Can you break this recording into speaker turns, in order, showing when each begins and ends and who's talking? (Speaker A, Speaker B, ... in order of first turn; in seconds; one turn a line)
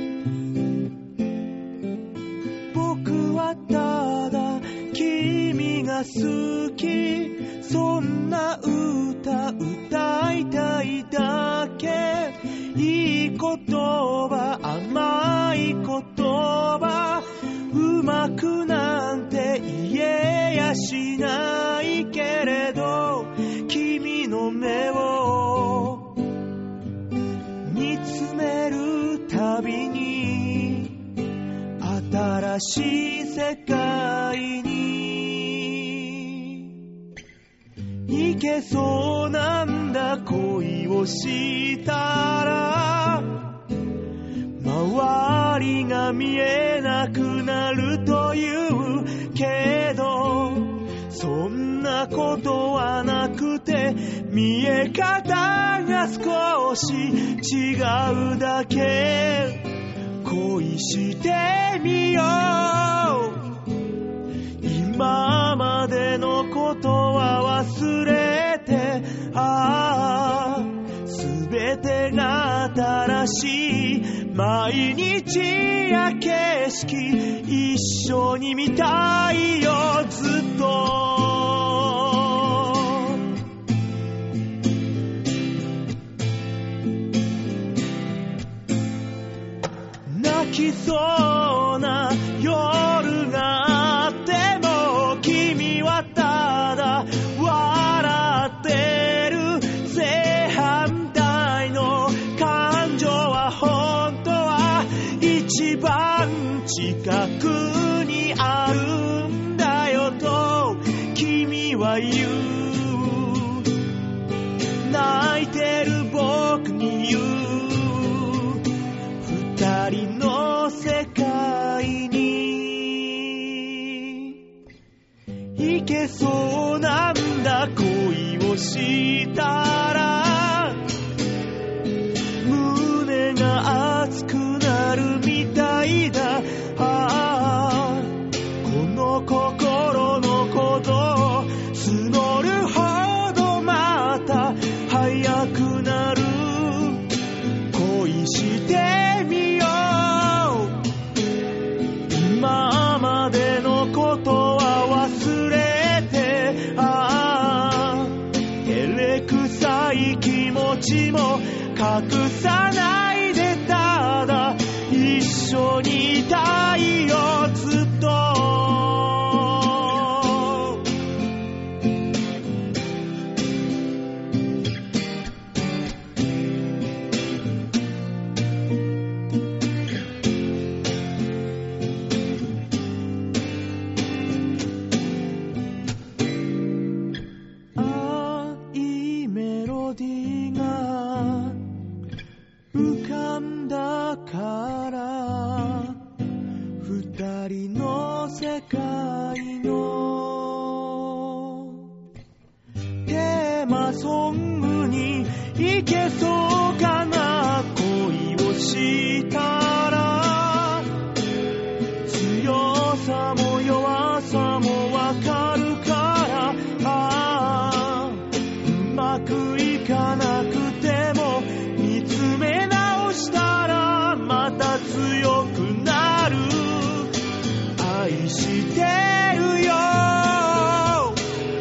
Speaker A: 2.7-26.2
Speaker A: 27.6-31.1
Speaker A: 31.8-36.7
Speaker A: 38.1-43.6
Speaker A: 44.6-59.7
Speaker A: 60.2-63.5
Speaker A: 64.6-83.3
Speaker A: 90.1-113.7
Speaker A: 114.8-118.7
Speaker A: 119.2-124.4
Speaker A: 125.6-130.8
Speaker A: 132.4-147.1
Speaker A: 147.7-150.8
Speaker A: 152.1-170.8
Speaker A: 187.8-191.6
Speaker A: 192.7-196.0
Speaker A: 196.8-201.9
Speaker A: 203.1-210.9
Speaker A: 212.1-227.1
Speaker A: 227.8-231.2